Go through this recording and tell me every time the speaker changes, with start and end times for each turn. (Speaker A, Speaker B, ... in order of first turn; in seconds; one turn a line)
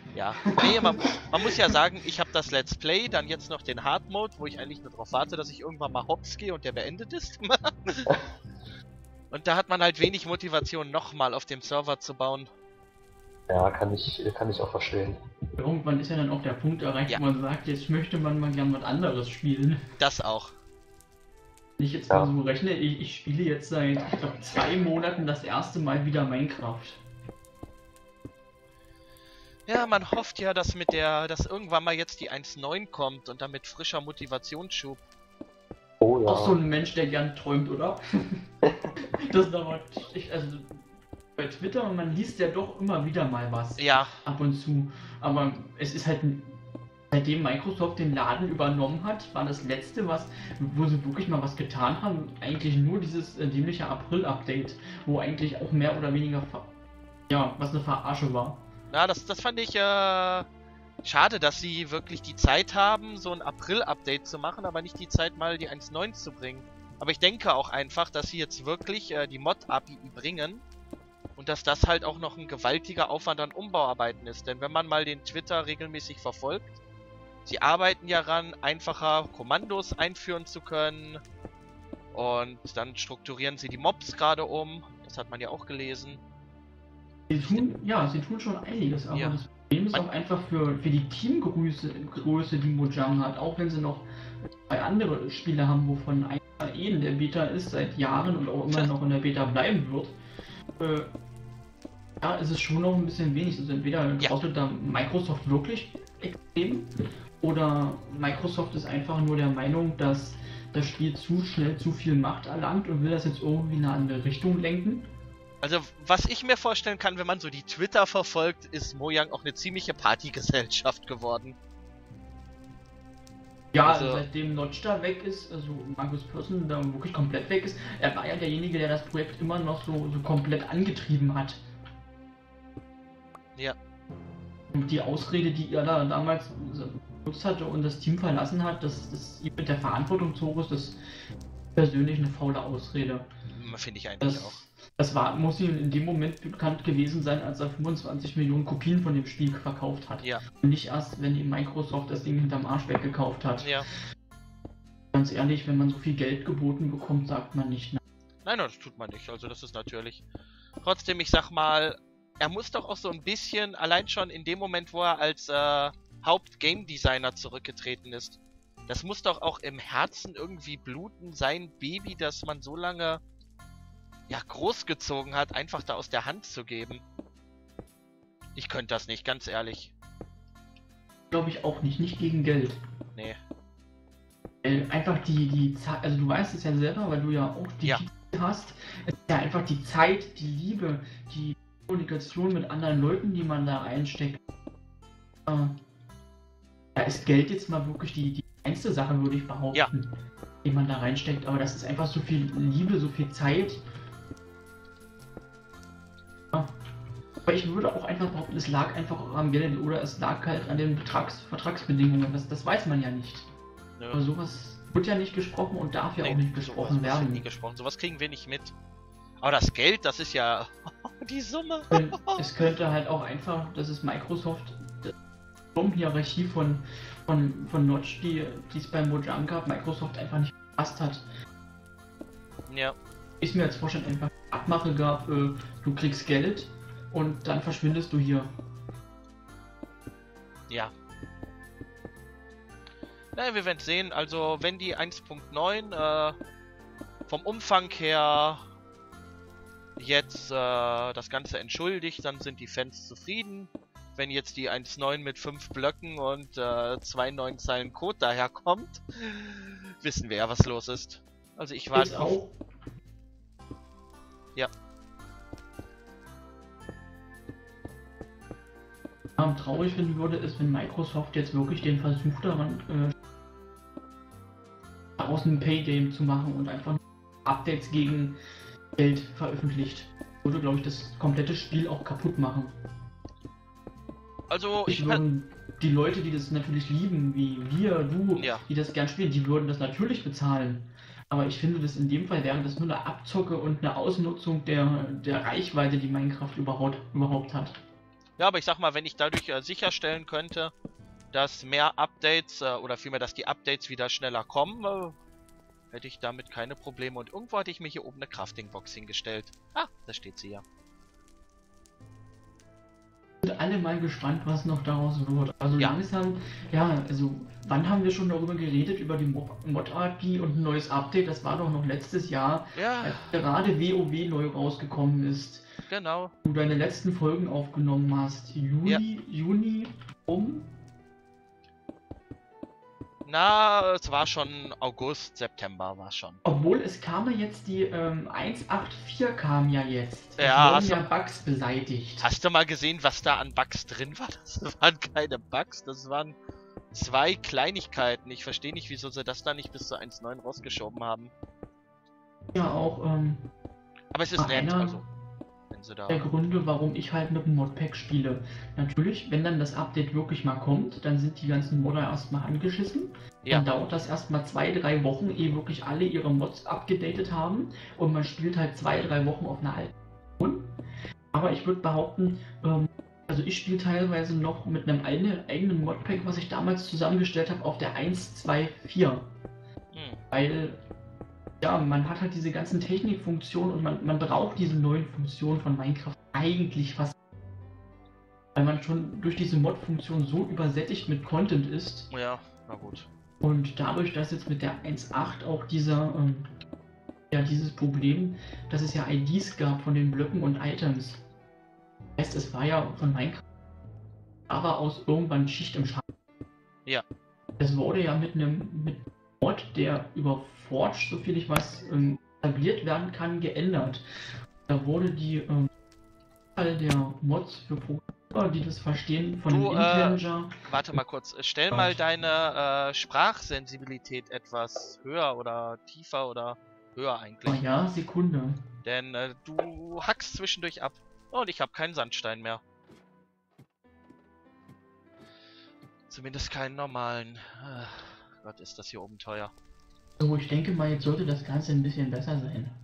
Speaker A: 0.1-8.1
Speaker B: 0.5-1.7
Speaker A: 9.3-12.5
Speaker C: 13.5-15.2
Speaker B: 15.6-19.8
Speaker A: 20.0-20.6
Speaker B: 21.8-27.0
Speaker A: 29.7-35.0
Speaker C: 36.0-36.6
Speaker B: 36.3-38.0
Speaker B: 39.3-40.8
Speaker B: 41.4-46.5
Speaker A: 43.8-44.2
Speaker B: 47.1-56.7
Speaker B: 57.3-58.6
Speaker A: 58.9-60.5
Speaker A: 61.0-70.6
Speaker A: 71.4-76.8
Speaker A: 77.5-81.2
Speaker A: 82.1-86.2
Speaker B: 87.3-94.0
Speaker A: 87.3-87.6
Speaker A: 89.1-89.4
Speaker B: 94.7-100.2
Speaker B: 100.8-101.1
Speaker B: 102.2-106.9
Speaker B: 107.4-115.1
Speaker A: 115.6-121.6
Speaker B: 123.7-131.6
Speaker A: 123.8-124.2
Speaker B: 134.7-141.0
Speaker B: 141.8-143.3
Speaker A: 143.5-144.6
Speaker B: 144.2-153.8
Speaker A: 153.6-153.9
Speaker B: 155.1-158.0
Speaker A: 158.4-160.2
Speaker A: 160.8-173.2
Speaker A: 174.3-177.0
Speaker A: 178.6-179.9
Speaker B: 181.3-182.8
Speaker B: 184.6-194.4
Speaker B: 195.5-195.8
Speaker B: 196.9-200.1
Speaker B: 200.6-203.8
Speaker B: 207.5-213.5
Speaker A: 214.0-214.3
Speaker B: 214.1-217.4
Speaker A: 216.2-218.7
Speaker A: 219.4-222.4
Speaker B: 221.9-225.1
Speaker B: 225.8-231.2
Speaker A: 232.7-233.0
Speaker B: 233.4-238.5
Speaker A: 243.3-246.4
Speaker A: 247.3-248.6
Speaker A: 250.0-262.4
Speaker B: 261.9-262.6
Speaker B: 269.4-273.1
Speaker B: 275.2-278.4
Speaker B: 279.0-282.8
Speaker A: 284.5-285.2
Speaker B: 284.9-297.8
Speaker A: 288.4-288.6
Speaker A: 298.4-300.7
Speaker A: 301.3-305.2
Speaker A: 305.9-310.6
Speaker B: 313.4-325.7
Speaker A: 322.7-323.4
Speaker A: 325.9-326.3
Speaker B: 326.4-330.7
Speaker A: 333.2-336.4
Speaker B: 336.4-342.2
Speaker A: 340.4-341.1
Speaker A: 342.2-346.4
Speaker A: 346.9-351.3
Speaker B: 352.5-353.4
Speaker A: 354.1-355.1
Speaker B: 354.4-355.0
Speaker A: 355.7-356.2
Speaker B: 356.1-370.7
Speaker B: 371.3-379.3
Speaker A: 379.9-380.2
Speaker B: 380.3-380.8
Speaker B: 381.6-387.1
Speaker B: 388.6-392.1
Speaker A: 392.1-393.1
Speaker B: 393.4-396.5
Speaker B: 397.3-401.2
Speaker B: 402.2-403.4
Speaker B: 404.5-406.0
Speaker B: 407.6-414.0
Speaker B: 414.7-415.7
Speaker B: 416.6-420.5
Speaker A: 419.5-427.6
Speaker B: 421.7-422.0
Speaker B: 427.5-428.6
Speaker A: 428.8-432.6
Speaker A: 436.1-439.5
Speaker B: 440.2-442.8